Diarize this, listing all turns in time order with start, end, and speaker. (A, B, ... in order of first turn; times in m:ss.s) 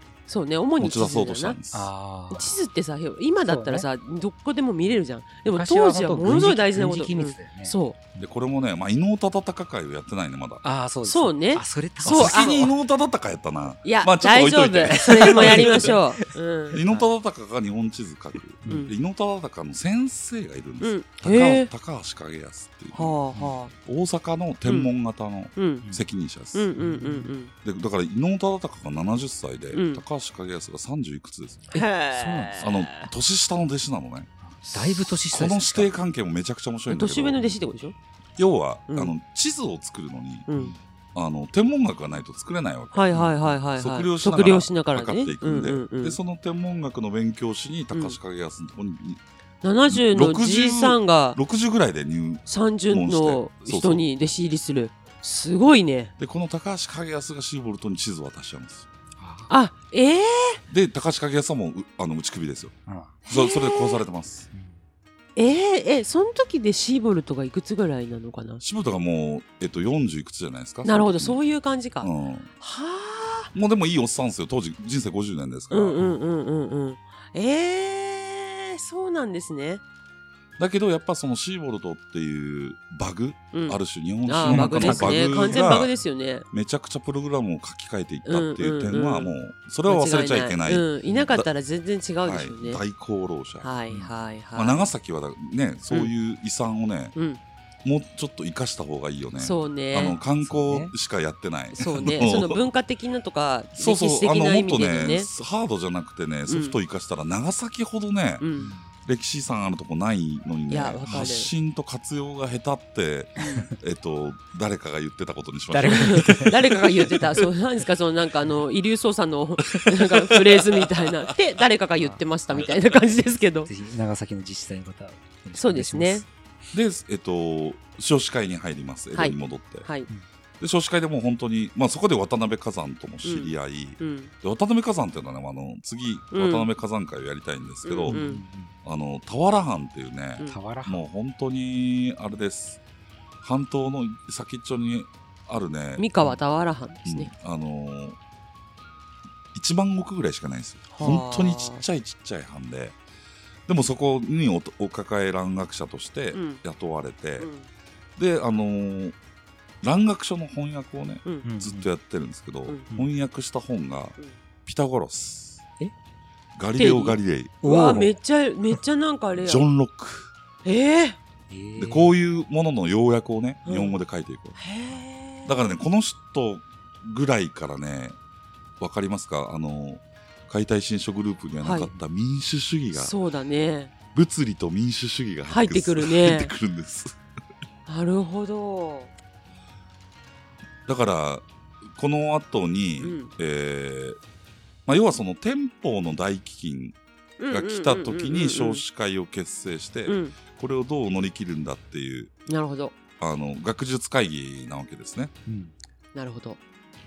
0:00.3-0:01.6 A
0:00.8-0:01.9 B
0:01.7-0:02.6 C
0:02.3-0:08.0 A
0:03.4-0:03.9 C
0:05.4-0:08.3 C
0:08.2-0:10.6 B
0:10.6-0:12.7 C
0:11.0-0:12.5 A
0:12.0-0:16.0 B
0:13.8-0:16.8 A
0:15.0-0:17.1 C
0:16.7-0:23.2 B
0:18.6-0:18.9 C
0:18.6-0:18.9 A
0:20.8-0:21.7 A
0:22.9-0:23.7 A
0:23.8-0:26.7 B
0:24.6-0:24.9 A
0:25.6-0:25.8 A
0:26.5-0:27.5 A
0:26.8-0:27.3 C
0:27.6-0:31.7 B
0:29.7-0:30.0 A
0:31.7-0:32.7 C
0:31.7-0:33.1 A
0:32.6-0:37.5 B
0:34.4-0:35.9 C
0:36.9-0:37.9 A
0:38.4-0:40.5 B
0:38.9-0:39.1 A
0:40.5-0:40.7 A
0:40.5-0:40.8 C
0:41.1-0:49.2 B
0:42.9-0:46.2 A
0:47.9-0:48.2 A
0:49.6-0:51.4 A
0:49.9-0:54.1 B
0:52.5-0:56.1 A
0:56.2-0:58.8 B
0:59.2-0:59.5 C
0:59.5-1:00.6 A
1:00.7-1:02.7 B
1:02.8-1:03.2 C
1:03.2-1:04.0 A
1:03.3-1:04.5 B
1:04.5-1:04.8 C
1:05.4-1:08.6 A
1:08.6-1:11.4 B
1:10.8-1:13.5 A
1:12.0-1:12.5 B
1:13.5-1:16.0 B
1:15.7-1:19.8 A
1:20.6-1:26.0 B
1:23.5-1:26.5 A
1:24.4-1:25.8 C
1:26.5-1:31.5 B
1:28.2-1:29.3 A
1:29.8-1:32.8 A
1:32.2-1:33.7 B
1:33.6-1:34.9 A
1:34.5-1:37.1 B
1:37.1-1:37.4 A
1:37.8-1:42.6 B
1:39.4-1:40.2 A
1:40.2-1:40.9 C
1:41.7-1:45.3 A
1:43.8-1:48.4 B
1:46.5-1:46.8 A
1:48.4-1:48.7 A
1:48.6-1:48.9 C
1:49.0-1:57.2 B
1:50.7-1:51.5 A
1:53.4-1:53.7 A
1:55.7-1:57.3 C
1:55.8-2:03.7 A
1:59.7-2:00.1 B
2:02.0-2:02.7 C
2:03.6-2:06.3 C
2:05.6-2:06.2 A
2:06.7-2:09.9 B
2:09.1-2:10.1 A
2:10.6-2:18.2 B
2:13.2-2:14.3 A
2:16.3-2:16.7 A
2:17.8-2:18.4 A
2:18.1-2:18.7 C
2:18.8-2:22.8 B
2:20.5-2:21.0 C
2:23.4-2:26.1 B
2:26.0-2:27.3 A
2:27.0-2:28.2 B
2:29.5-2:33.0 B
2:30.9-2:31.8 A
2:33.7-2:37.5 B
2:36.3-2:36.6 A
2:37.4-2:37.7 A
2:38.2-2:39.2 B
2:39.8-2:45.6 B
2:41.4-2:41.9 C
2:46.6-2:47.6 B
2:46.8-2:49.6 A
2:47.6-2:48.1 C
2:49.4-2:50.3 B
2:50.6-2:51.2 A
2:51.5-2:52.1 C
2:51.8-2:54.6 B
2:53.6-2:54.0 A
2:54.6-2:55.7 A
2:55.4-2:58.2 B
2:58.8-3:03.1 B
3:01.6-3:01.9 A
3:02.9-3:03.9 A
3:04.1-3:07.1 B
3:05.5-3:06.5 A
3:07.8-3:09.1 A
3:10.9-3:11.4 B
3:11.9-3:14.2 B
3:13.0-3:13.3 A
3:14.8-3:17.0 B
3:17.4-3:18.8 A
3:17.5-3:22.3 B
3:20.0-3:20.4 A
3:22.5-3:22.9 A
3:23.2-3:25.3 B
3:25.4-3:25.7 C
3:26.1-3:26.6 A